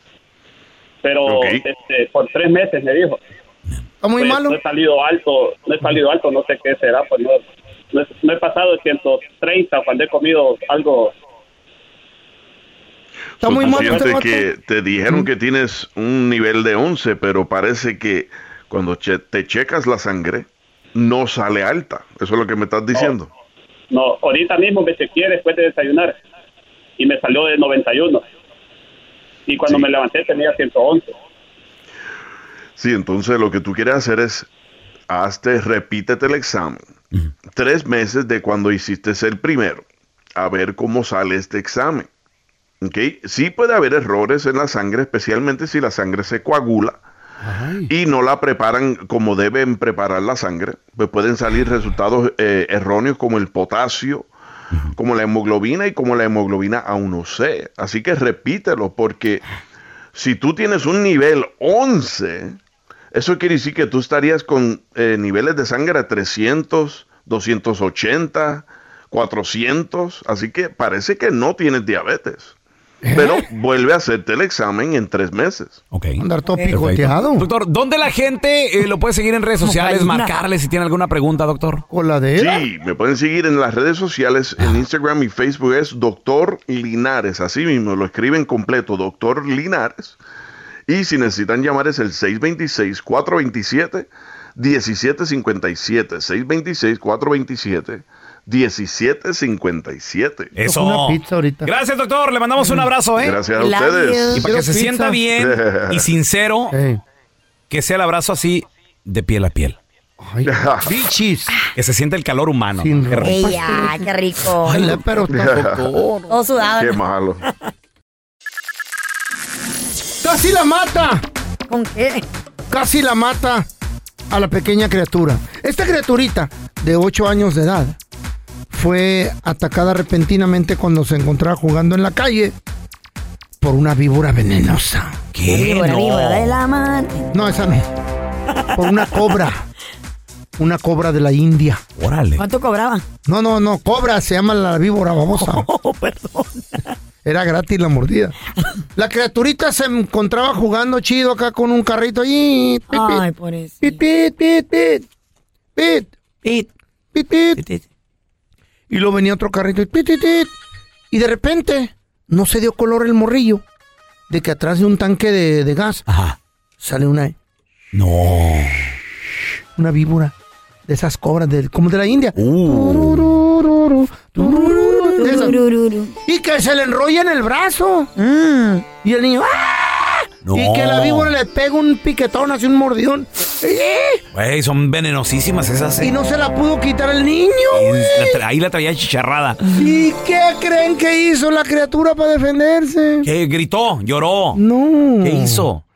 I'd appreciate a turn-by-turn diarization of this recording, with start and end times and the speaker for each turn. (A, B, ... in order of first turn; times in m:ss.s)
0:01.0-0:03.2 A
0:01.2-0:01.6 B
0:04.0-0:04.6 C
0:04.2-0:11.1 A
0:13.4-0:14.4 C
0:13.4-0:23.3 B
0:23.9-0:26.1 A
0:27.0-0:28.2 A
0:29.5-0:31.2 A
0:32.8-0:34.5 B
0:35.1-0:36.9 B
0:37.5-0:39.8 B
0:40.4-0:42.1 B
0:42.8-0:47.0 B
0:47.4-0:47.9 C
0:47.9-0:54.3 B
0:54.9-0:59.4 B
1:00.1-1:02.6 B
1:03.1-1:12.5 B
1:13.0-1:13.4 C
1:13.1-1:15.8 B
1:15.9-1:21.8 D
1:16.2-1:17.4 C
1:19.6-1:20.3 E
1:21.9-1:22.6 C
1:22.4-1:30.2 B
1:30.9-1:40.5 B
1:40.5-1:43.4 D
1:40.6-1:41.7 C
1:42.6-1:42.8 C
1:43.1-1:44.4 B
1:43.5-1:44.4 E
1:44.3-1:46.7 D
1:44.3-1:45.2 C
1:45.3-1:46.1 B
1:46.7-1:47.0 C
1:47.7-1:49.8 D
1:50.2-1:51.5 C
1:50.4-1:50.9 B
1:51.8-1:53.4 D
1:52.8-1:54.1 C
1:53.2-1:55.0 E
1:54.6-1:55.7 C
1:54.8-1:56.3 D
1:55.3-1:56.0 B
1:56.3-1:57.0 E
1:56.7-1:57.4 B
2:00.2-2:01.2 C
2:01.7-2:02.2 E
2:02.7-2:03.7 C
2:04.3-2:08.0 C
2:08.7-2:12.5 C
2:13.6-2:15.2 C
2:15.3-2:16.5 D
2:15.4-2:17.5 E
2:17.3-2:17.8 C
2:18.8-2:19.6 C
2:20.6-2:21.8 C
2:22.0-2:22.4 D
2:22.4-2:23.0 E
2:23.2-2:25.6 C
2:25.4-2:26.8 E
2:27.2-2:28.4 C
2:29.0-2:33.2 C
2:32.9-2:34.0 E
2:33.8-2:35.0 C
2:35.8-2:36.1 C
2:37.1-2:37.6 C
2:38.9-2:40.5 C
2:41.1-2:43.6 C
2:44.3-2:46.0 C
2:46.1-2:46.4 D
2:46.8-2:47.3 C
2:47.9-2:48.9 D
2:49.8-2:50.3 C
2:50.9-2:55.6 C
2:52.4-2:53.4 D
2:54.4-2:56.1 E
2:56.2-2:58.1 C
2:58.2-2:58.8 E
2:59.0-3:04.2 C
3:00.4-3:01.3 D
3:04.3-3:06.1 D
3:06.0-3:08.4 C
3:07.7-3:09.6 D
3:09.7-3:13.3 C
3:13.2-3:14.6 D
3:14.5-3:15.7 C
3:15.2-3:15.8 D